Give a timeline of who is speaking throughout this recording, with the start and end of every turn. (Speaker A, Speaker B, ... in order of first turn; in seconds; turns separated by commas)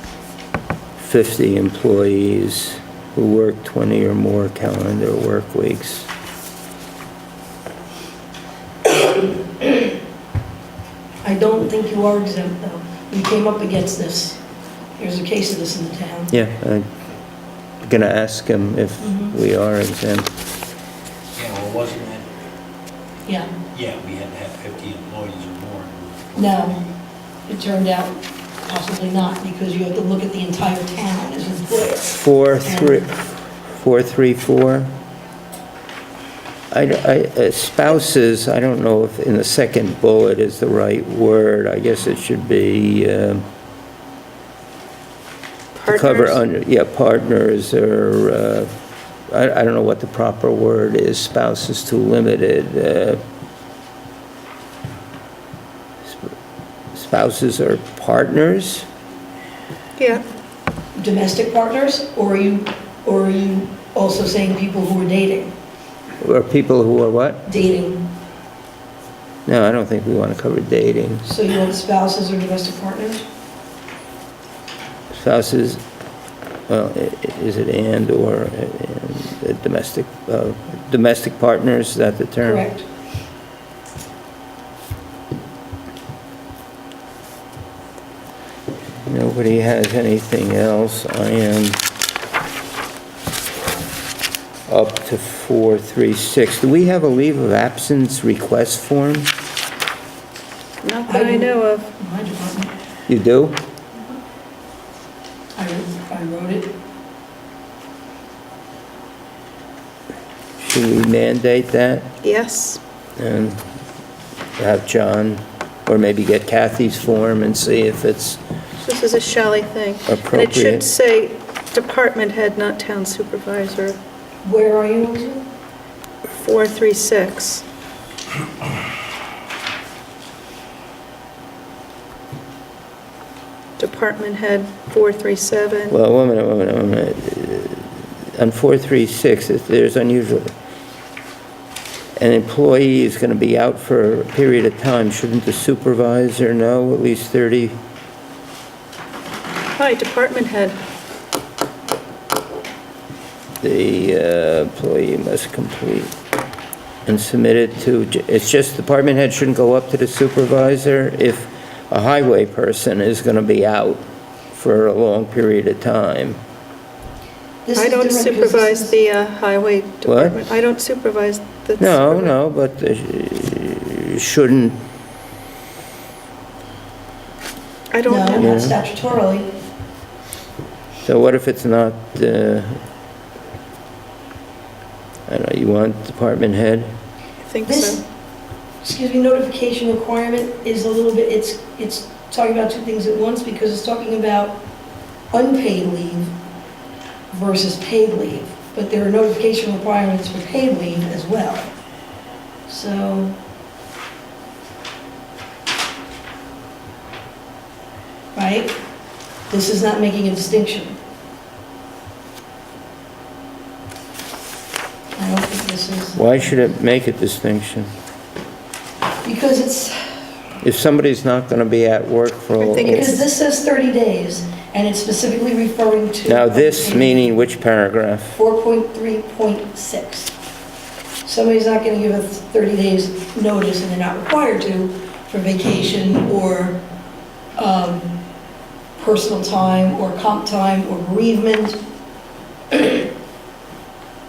Speaker A: 1.0-6.1, Speaker B: 11.2-14.4, Speaker B: 15.0-16.3, Speaker A: 16.3-16.9, Speaker A: 17.8-20.3, Speaker B: 19.0-19.4, Speaker C: 21.4-22.2, Speaker B: 23.3-23.5, Speaker C: 23.7-26.5, Speaker B: 26.4-26.8, Speaker B: 27.5-33.1, Speaker A: 32.1-34.9, Speaker A: 36.7-43.5, Speaker D: 45.8-46.4, Speaker A: 45.9-48.7, Speaker A: 49.3-53.2, Speaker A: 56.1-56.3, Speaker A: 56.9-58.9, Speaker D: 60.0-60.2, Speaker B: 61.0-65.5, Speaker A: 66.2-67.5, Speaker B: 67.5-68.1, Speaker A: 69.5-71.3, Speaker B: 71.2-73.2, Speaker A: 75.1-75.8, Speaker A: 76.7-82.7, Speaker B: 82.4-82.8, Speaker A: 89.0-91.8, Speaker A: 94.7-99.3, Speaker D: 100.8-101.9, Speaker B: 101.1-102.8, Speaker A: 103.1-103.6, Speaker B: 105.6-106.7, Speaker A: 110.6-112.1, Speaker D: 112.2-112.8, Speaker A: 113.2-113.6, Speaker A: 114.6-118.4, Speaker D: 118.8-124.0, Speaker A: 120.1-120.9, Speaker B: 124.4-125.4, Speaker D: 126.3-127.6, Speaker D: 133.8-136.0, Speaker A: 135.9-140.5, Speaker A: 142.2-147.8, Speaker D: 149.8-150.8, Speaker A: 153.6-156.1, Speaker A: 157.1-166.4, Speaker B: 167.7-168.9, Speaker D: 167.8-172.3, Speaker A: 170.1-170.4, Speaker A: 171.8-174.8, Speaker D: 177.9-178.5, Speaker B: 178.1-179.5, Speaker A: 178.4-178.8, Speaker A: 181.1-182.8, Speaker A: 185.3-186.9, Speaker D: 187.4-188.0, Speaker B: 187.7-188.0, Speaker B: 188.8-194.6, Speaker B: 195.3-196.3, Speaker B: 197.3-201.7, Speaker B: 202.7-203.4, Speaker B: 208.3-208.8, Speaker B: 209.5-211.0, Speaker B: 215.2-216.5, Speaker A: 216.2-217.9, Speaker B: 219.2-220.1, Speaker A: 220.6-223.2, Speaker D: 222.6-223.2, Speaker B: 222.8-227.3, Speaker A: 226.3-228.4, Speaker B: 228.4-230.3, Speaker B: 231.2-236.8, Speaker B: 237.6-238.1, Speaker B: 239.0-241.8, Speaker B: 242.7-243.1